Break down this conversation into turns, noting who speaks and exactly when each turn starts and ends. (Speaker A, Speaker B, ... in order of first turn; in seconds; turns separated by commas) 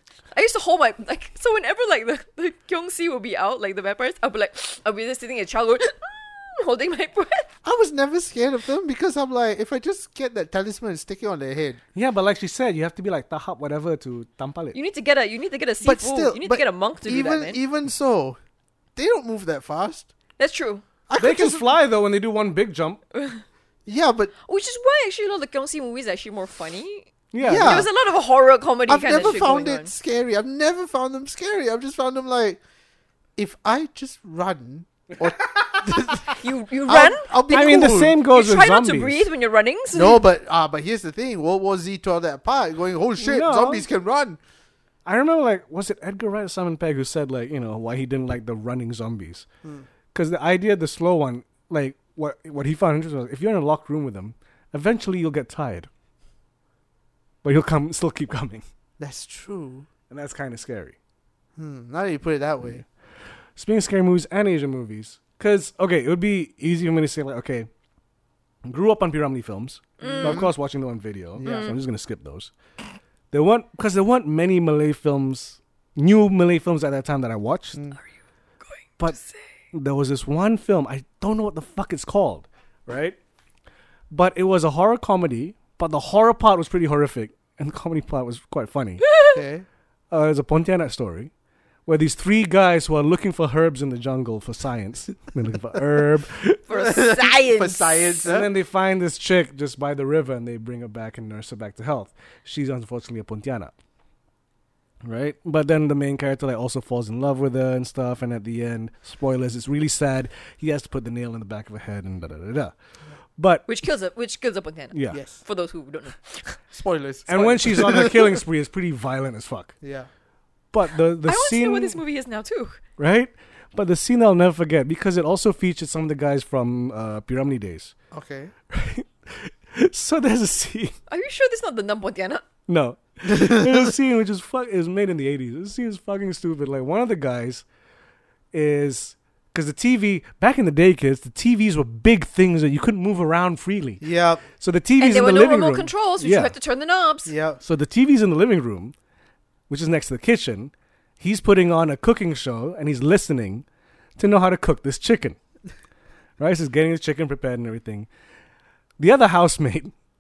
Speaker A: 0.3-7.5, Speaker B: 7.6-11.8, Speaker C: 11.9-14.8, Speaker A: 14.7-17.6, Speaker B: 15.8-18.4, Speaker B: 19.0-20.1, Speaker A: 20.4-20.8, Speaker B: 21.1-21.7, Speaker C: 21.2-23.0, Speaker A: 23.1-23.4, Speaker B: 23.9-24.3, Speaker A: 24.5-29.9, Speaker C: 27.3-27.9, Speaker B: 27.4-27.9, Speaker B: 28.9-32.6, Speaker B: 33.4-36.4, Speaker C: 35.2-36.3, Speaker A: 36.4-40.2, Speaker B: 36.9-38.2, Speaker C: 37.5-39.3, Speaker B: 39.9-44.4, Speaker C: 43.2-43.9, Speaker C: 45.1-49.5, Speaker C: 50.1-55.9, Speaker C: 57.4-58.6, Speaker B: 59.0-59.9, Speaker C: 60.1-61.0, Speaker B: 61.6-62.8, Speaker C: 63.6-67.7, Speaker C: 68.7-72.5, Speaker A: 70.0-70.5, Speaker B: 70.1-70.5, Speaker B: 71.4-71.8, Speaker A: 71.4-71.8, Speaker C: 73.3-77.8, Speaker A: 78.6-79.5, Speaker C: 79.7-83.2, Speaker C: 84.1-89.1, Speaker A: 89.0-89.4, Speaker B: 89.3-89.7, Speaker C: 90.1-91.3, Speaker C: 91.9-96.6, Speaker A: 96.7-98.2, Speaker B: 96.7-98.5, Speaker C: 98.2-103.7, Speaker C: 105.0-112.7, Speaker C: 113.4-113.7, Speaker A: 113.7-116.6, Speaker C: 114.9-115.2, Speaker B: 115.1-115.4, Speaker B: 116.7-118.4, Speaker C: 117.3-119.8, Speaker B: 119.8-120.1, Speaker C: 120.7-122.0, Speaker A: 121.2-122.8, Speaker C: 123.0-127.9, Speaker B: 128.1-128.5, Speaker C: 128.7-130.9, Speaker A: 131.1-132.4, Speaker C: 132.7-137.6, Speaker B: 133.3-133.9, Speaker C: 138.5-144.0, Speaker B: 144.0-144.4, Speaker C: 144.6-146.6, Speaker A: 145.0-147.3, Speaker B: 147.3-147.6, Speaker C: 147.6-148.9, Speaker C: 149.7-153.7, Speaker C: 154.2-155.4, Speaker C: 156.4-158.1, Speaker C: 159.0-159.9